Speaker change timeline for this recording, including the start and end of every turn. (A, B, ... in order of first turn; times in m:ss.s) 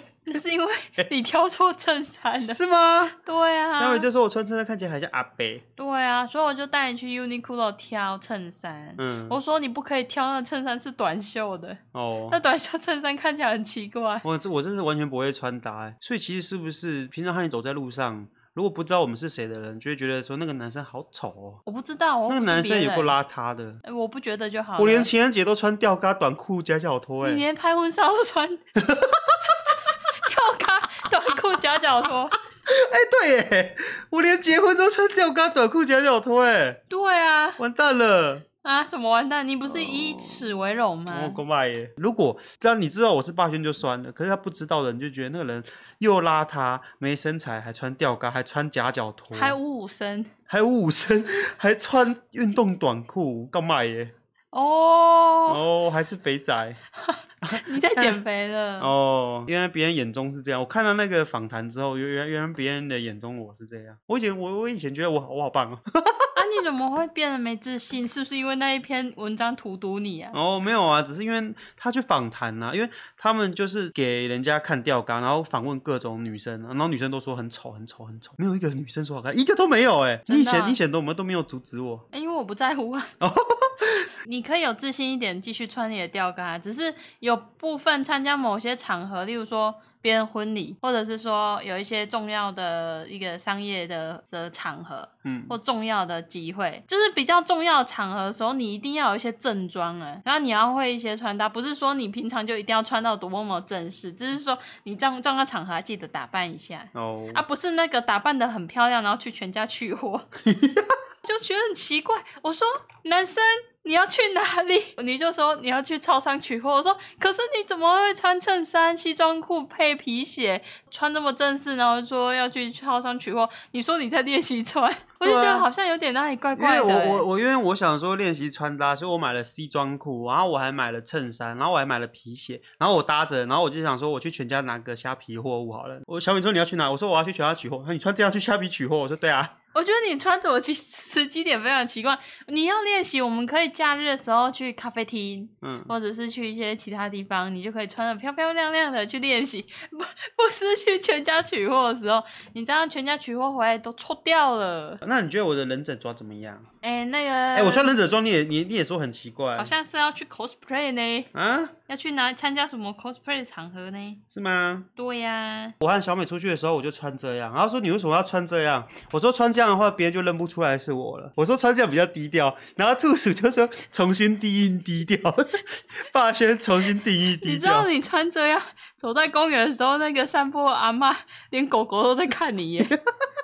0:00.2-0:02.6 A
0:02.5-0:03.2 B
0:03.1-0:04.0 A
0:03.8-0:05.6 B
0:05.8-0:14.2 A
0:09.0-0:09.4 B
0:11.9-0:12.4 B
0:14.2-0:21.6 B
0:21.6-0:23.1 A
0:22.3-0:23.8 B
0:23.8-0:25.1 A
0:24.8-0:27.4 B
0:27.2-0:28.6 A
0:28.7-0:29.6 B
0:30.1-0:32.4 A
0:32.6-0:36.8 B
0:36.9-0:37.6 A
0:37.6-0:38.4 B
0:38.6-0:41.4 A
0:39.7-0:40.4 B
0:41.1-0:49.6 B
0:49.3-0:50.3 A
0:50.5-0:54.1 B
0:54.5-0:55.6 A
0:55.5-0:56.8 B
0:57.0-0:58.9 A
0:57.4-0:58.1 B
0:58.8-1:06.4 B
1:06.3-1:10.3 A
1:10.3-1:22.0 B
1:20.3-1:20.8 A
1:22.1-1:23.1 A
1:23.2-1:24.1 B
1:24.2-1:50.3 A
1:35.2-1:35.6 B
1:46.9-1:47.4 B
1:50.4-1:51.0 B
1:51.2-2:07.2 A
2:05.2-2:05.7 B
2:06.6-2:19.5 B
2:19.7-2:35.0 A
2:25.6-2:25.9 B
2:35.0-2:36.7 B
2:36.8-2:37.9 A
2:37.5-2:39.7 B
2:39.5-2:41.3 A
2:41.3-2:41.7 B
2:41.9-2:44.2 A
2:44.3-2:44.9 B
2:45.0-2:45.8 A
2:45.8-2:57.9 B
2:57.4-3:03.0 A